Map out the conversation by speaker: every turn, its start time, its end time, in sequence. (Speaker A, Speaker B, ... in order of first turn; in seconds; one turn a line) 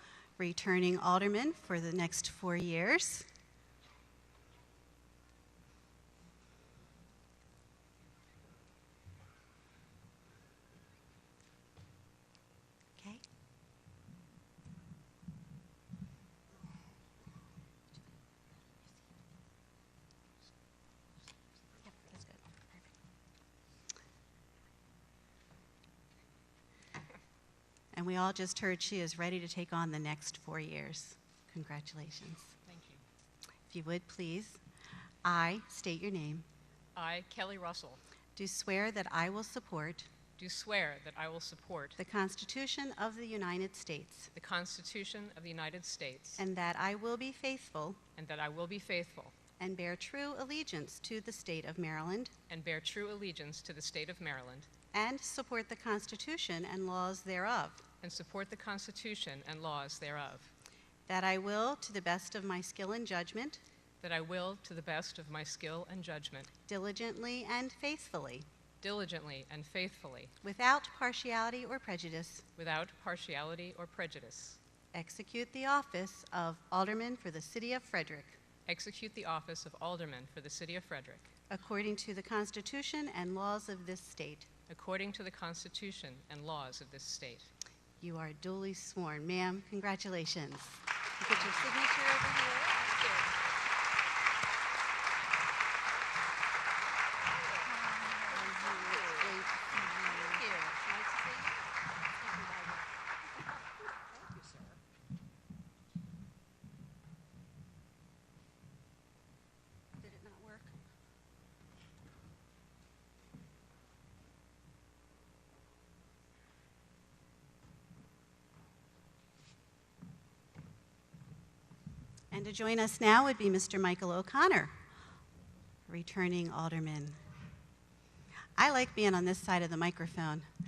Speaker A: 0.4-3.2
Speaker A: 21.8-22.8
Speaker A: 27.9-32.5
Speaker B: 32.7-33.0
Speaker A: 33.7-34.6
Speaker A: 35.2-36.4
Speaker B: 36.9-38.0
Speaker A: 38.4-40.1
Speaker B: 40.4-42.0
Speaker A: 42.0-44.3
Speaker B: 44.3-46.4
Speaker A: 46.4-48.0
Speaker B: 48.1-49.3
Speaker A: 49.6-52.3
Speaker B: 52.5-54.7
Speaker A: 54.9-57.8
Speaker B: 58.0-60.5
Speaker A: 61.1-63.6
Speaker B: 64.0-66.5
Speaker A: 66.7-68.4
Speaker B: 68.8-70.3
Speaker A: 70.4-72.5
Speaker B: 72.6-74.6
Speaker A: 74.9-78.4
Speaker B: 78.7-81.3
Speaker A: 81.5-84.5
Speaker B: 84.7-87.5
Speaker A: 88.0-92.8
Speaker A: 98.3-101.3
Speaker A: 102.2-102.8
Speaker A: 104.3-104.6
Speaker A: 110.0-110.7
Speaker A: 122.3-124.7
Speaker A: 125.9-127.2
Speaker A: 128.6-130.4